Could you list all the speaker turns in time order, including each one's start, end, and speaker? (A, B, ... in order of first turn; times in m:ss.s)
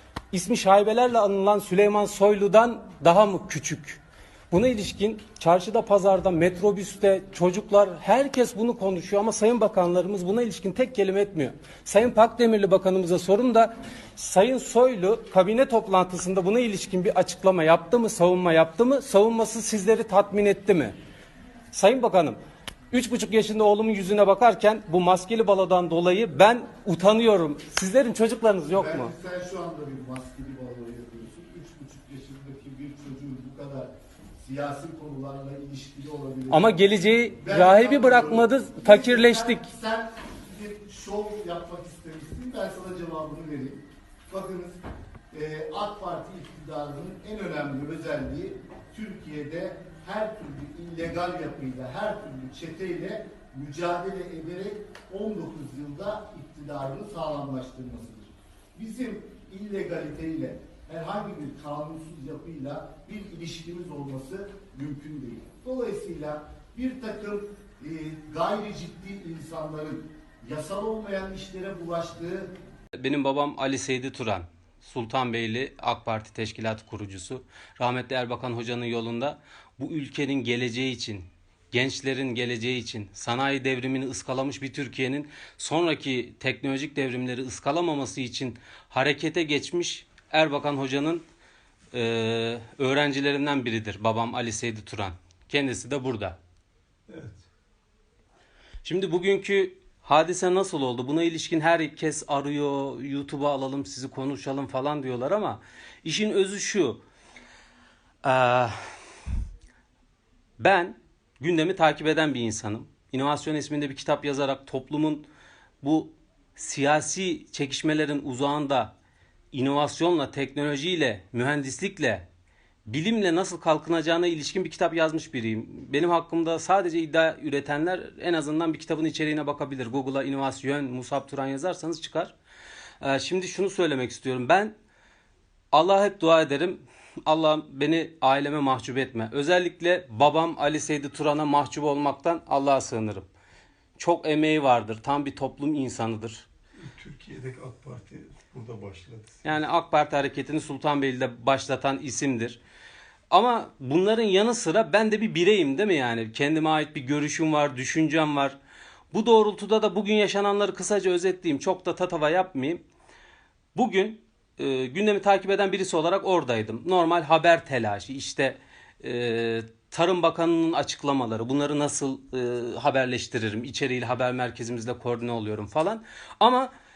0:00.3-0:20.9 A
0:21.7-0:22.4 A
0:22.9-0:29.1 A
0:28.7-0:36.8 B
0:36.5-0:39.7 A
0:37.4-1:12.5 B
1:13.0-1:31.2 A
1:31.9-1:36.4 A
1:37.1-1:37.4 C
1:38.8-1:47.0 A
1:48.2-1:48.8 A
1:50.6-1:55.3 A
1:55.8-1:58.9 A
1:59.5-2:02.3 A
2:02.9-2:12.3 A
2:13.0-2:14.7 A
2:15.7-2:23.2 A
2:24.0-2:26.4 A
2:26.9-2:29.4 C
2:29.4-2:32.6 A
2:33.3-2:38.5 A
2:39.1-2:42.8 A
2:43.7-2:56.7 A